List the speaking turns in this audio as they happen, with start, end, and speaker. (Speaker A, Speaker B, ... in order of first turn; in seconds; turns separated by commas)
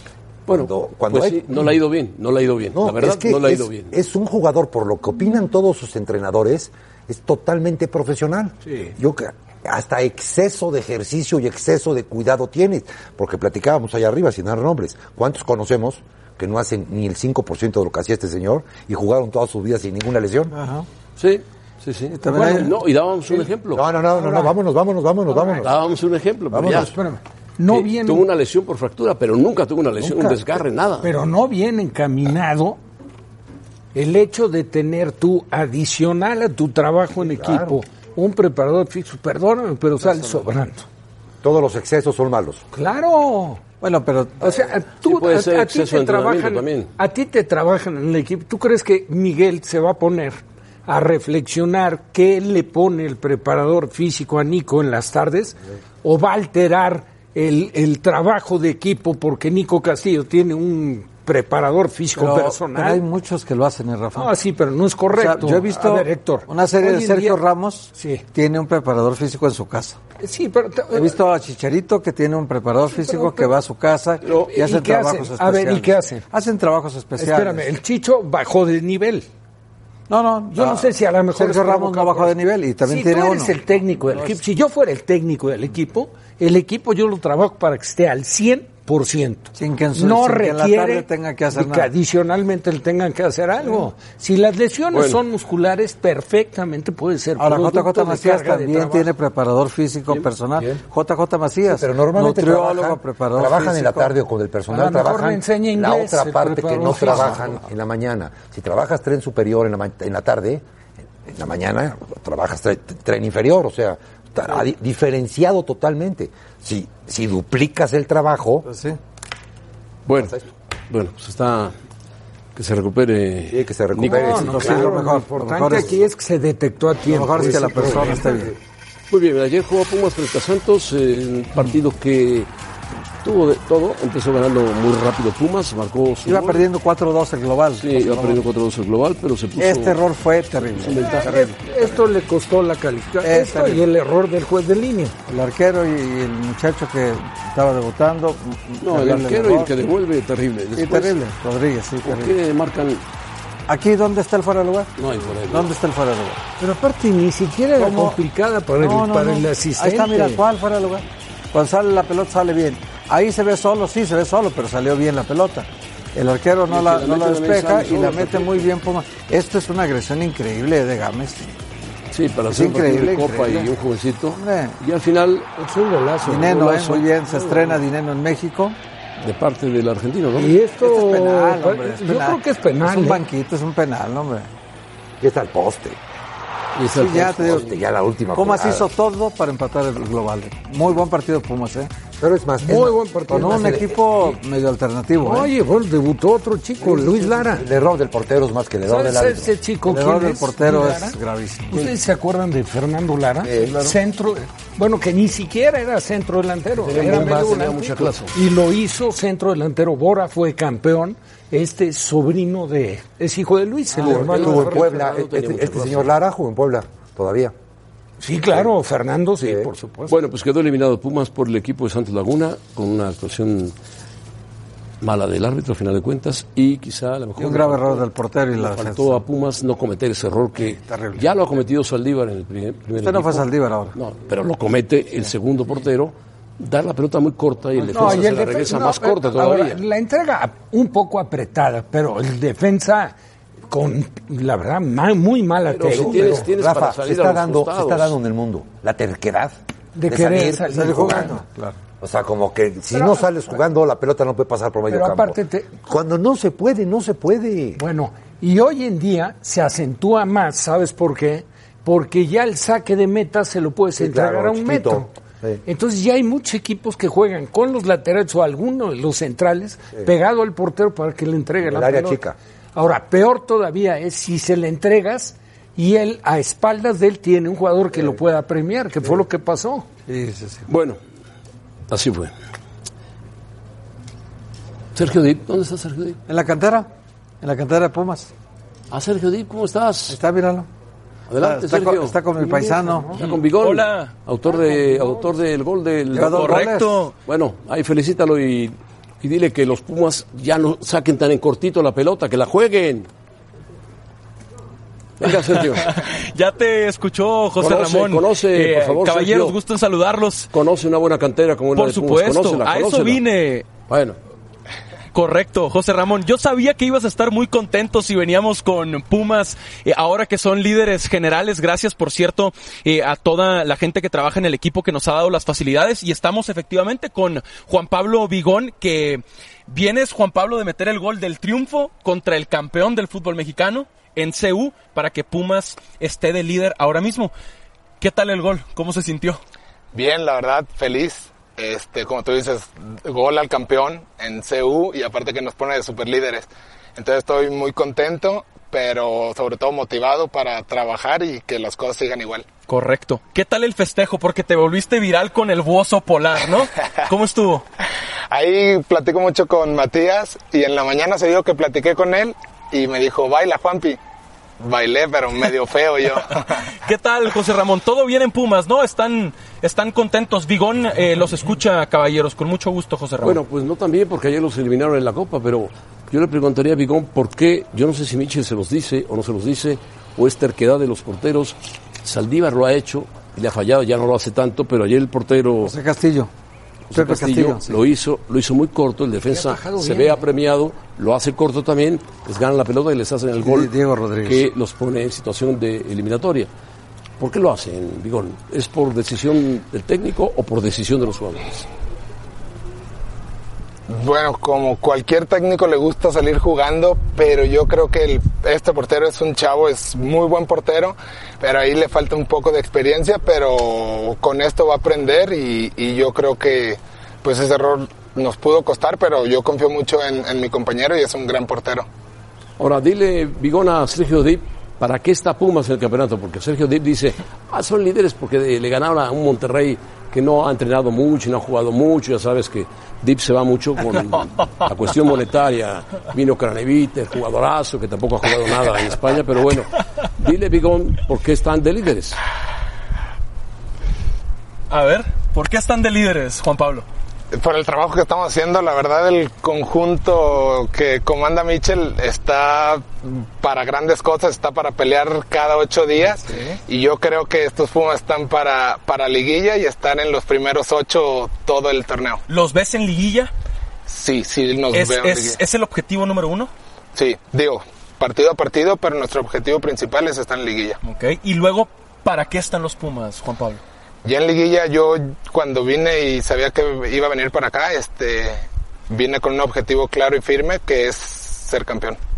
Speaker A: 0.5-1.8, Speaker B: 0.5-3.9, Speaker A: 2.8-20.5, Speaker C: 20.5-20.9, Speaker B: 21.2-23.9, Speaker C: 22.2-22.7, Speaker A: 23.7-25.8, Speaker D: 24.1-24.5, Speaker D: 25.3-25.6, Speaker B: 25.6-26.9, Speaker A: 26.5-27.0, Speaker D: 26.8-28.3, Speaker B: 27.7-31.1, Speaker D: 31.0-32.8, Speaker D: 34.0-40.9, Speaker A: 37.2-37.8, Speaker A: 41.4-42.6, Speaker D: 42.7-43.6, Speaker C: 43.8-44.6, Speaker D: 44.4-63.0, Speaker B: 45.0-46.9, Speaker C: 62.2-64.3, Speaker D: 64.1-67.4, Speaker C: 65.1-70.0, Speaker D: 67.9-68.2, Speaker D: 70.2-71.2, Speaker C: 70.9-77.7, Speaker D: 72.9-73.6, Speaker D: 74.2-76.3, Speaker D: 77.2-79.3, Speaker C: 80.1-83.5, Speaker D: 80.5-99.1, Speaker C: 89.6-91.9, Speaker B: 94.9-95.2, Speaker C: 97.4-104.2, Speaker A: 101.7-110.6, Speaker D: 104.7-107.5, Speaker C: 107.1-107.5, Speaker A: 111.2-118.7, Speaker C: 118.7-119.0, Speaker B: 120.1-121.7, Speaker B: 122.5-124.6, Speaker A: 123.5-125.8, Speaker D: 124.0-128.4, Speaker C: 124.4-125.9, Speaker C: 127.1-128.5, Speaker A: 127.4-128.4, Speaker B: 129.1-132.5, Speaker B: 133.2-136.7, Speaker C: 136.3-138.4, Speaker B: 137.8-140.0, Speaker C: 139.6-141.1, Speaker B: 140.8-141.6, Speaker D: 140.9-145.2, Speaker C: 143.2-143.8, Speaker C: 145.3-149.7, Speaker B: 148.8-151.2, Speaker C: 150.8-152.3, Speaker B: 152.0-153.0, Speaker C: 153.7-156.4, Speaker B: 155.0-155.7, Speaker D: 156.6-160.4, Speaker C: 157.8-158.2, Speaker C: 158.8-171.5, Speaker B: 166.7-168.7, Speaker B: 172.1-175.5, Speaker C: 172.5-173.7, Speaker C: 174.4-174.8, Speaker D: 175.6-176.5, Speaker C: 176.2-178.8, Speaker B: 176.4-177.8, Speaker B: 179.2-180.6, Speaker D: 180.4-183.3, Speaker C: 180.8-184.5, Speaker A: 185.2-186.0, Speaker B: 186.8-187.7, Speaker C: 186.9-187.7, Speaker A: 187.2-188.9, Speaker C: 188.3-191.9, Speaker A: 192.2-193.9, Speaker D: 192.6-194.0, Speaker C: 193.3-195.5, Speaker D: 195.2-197.7, Speaker A: 196.8-199.5, Speaker D: 198.9-201.2, Speaker C: 199.9-201.8, Speaker D: 201.7-214.9, Speaker A: 203.4-203.9, Speaker B: 206.8-208.4, Speaker B: 213.9-216.1, Speaker A: 214.0-217.5, Speaker D: 218.2-220.2, Speaker A: 219.4-219.7, Speaker B: 220.1-223.7, Speaker B: 225.0-239.8, Speaker C: 227.4-229.2, Speaker C: 230.7-231.3, Speaker C: 233.0-233.9, Speaker C: 237.8-238.4, Speaker D: 237.9-243.1, Speaker D: 243.7-246.5, Speaker B: 245.7-248.2, Speaker A: 245.9-249.6, Speaker D: 249.9-251.4, Speaker A: 250.1-251.4, Speaker C: 250.7-251.8, Speaker A: 252.0-257.8, Speaker D: 252.9-253.5, Speaker D: 254.9-255.7, Speaker D: 257.8-265.1, Speaker A: 264.0-265.6, Speaker D: 265.7-272.2, Speaker A: 271.7-272.4, Speaker D: 272.8-279.9, Speaker C: 280.1-280.7, Speaker B: 280.7-281.0, Speaker B: 281.9-282.3, Speaker B: 284.9-286.2, Speaker C: 286.3-286.9, Speaker C: 287.4-288.3, Speaker B: 288.9-290.2, Speaker C: 290.1-290.7, Speaker B: 291.3-296.7, Speaker C: 291.4-293.1, Speaker D: 292.6-293.0, Speaker E: 293.3-294.1, Speaker C: 296.1-297.0, Speaker E: 296.2-297.1, Speaker B: 297.3-303.1, Speaker B: 305.2-305.9, Speaker E: 305.6-310.5, Speaker B: 307.6-309.6, Speaker B: 310.5-313.2, Speaker E: 311.8-313.7, Speaker B: 313.9-314.2, Speaker E: 315.1-337.3, Speaker E: 338.0-339.4, Speaker F: 339.9-352.5, Speaker E: 352.7-357.6, Speaker F: 358.3-364.0, Speaker F: 364.6-366.5, Speaker E: 366.8-373.4, Speaker B: 373.2-385.7, Speaker C: 385.6-386.3, Speaker B: 386.9-396.5, Speaker C: 386.9-387.8, Speaker D: 389.2-390.3, Speaker C: 393.4-394.5, Speaker B: 397.2-401.7, Speaker F: 403.9-421.9, Speaker B: 422.6-442.2, Speaker E: 444.7-446.9, Speaker F: 447.3-462.2, Speaker E: 462.3-463.3, Speaker F: 463.9-465.4, Speaker E: 464.7-466.5, Speaker F: 466.9-470.8, Speaker E: 470.8-473.6, Speaker F: 474.0-482.0